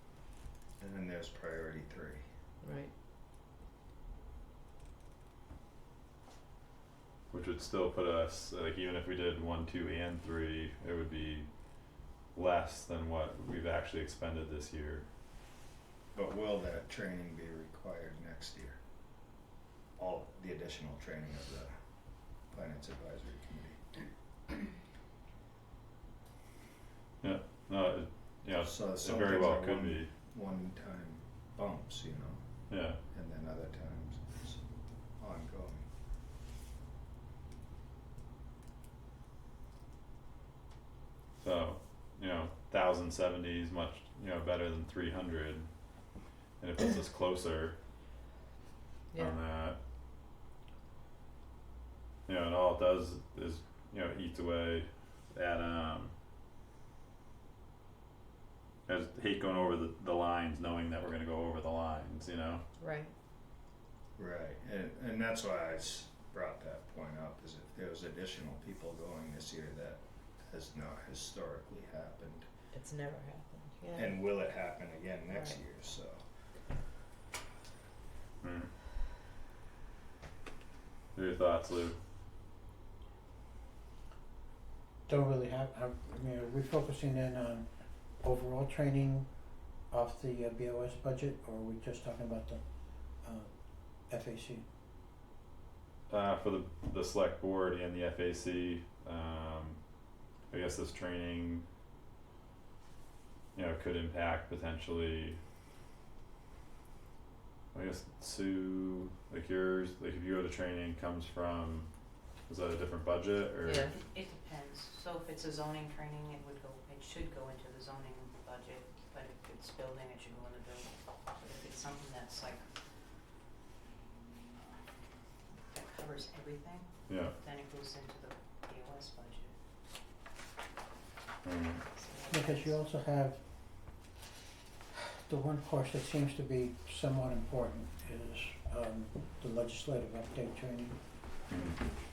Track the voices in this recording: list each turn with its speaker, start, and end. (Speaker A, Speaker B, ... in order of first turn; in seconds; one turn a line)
Speaker A: 0.8-2.2
Speaker B: 2.6-2.9
Speaker C: 7.3-15.1
Speaker A: 16.1-18.8
Speaker A: 20.0-21.7
Speaker A: 22.5-23.8
Speaker C: 27.2-30.1
Speaker A: 28.5-32.4
Speaker C: 32.7-33.0
Speaker A: 33.1-34.6
Speaker A: 35.2-35.9
Speaker C: 41.4-45.7
Speaker C: 46.6-47.8
Speaker B: 49.1-49.4
Speaker C: 49.1-49.8
Speaker C: 52.3-56.1
Speaker C: 58.9-62.6
Speaker B: 62.8-63.1
Speaker A: 64.2-72.5
Speaker B: 72.7-74.2
Speaker A: 73.9-76.2
Speaker B: 75.3-75.6
Speaker C: 78.4-78.7
Speaker C: 81.2-82.0
Speaker D: 85.1-87.7
Speaker D: 88.2-89.3
Speaker D: 89.9-92.6
Speaker D: 93.2-93.5
Speaker D: 94.1-94.6
Speaker C: 96.1-99.8
Speaker C: 100.5-101.7
Speaker C: 103.5-105.4
Speaker C: 107.7-111.9
Speaker C: 112.5-113.9
Speaker B: 113.7-114.0
Speaker E: 113.9-122.6
Speaker E: 125.7-129.5
Speaker C: 127.1-127.3
Speaker C: 131.4-131.8
Speaker E: 131.9-132.7
Speaker D: 132.3-133.4
Speaker D: 135.2-141.0
Speaker C: 141.5-141.8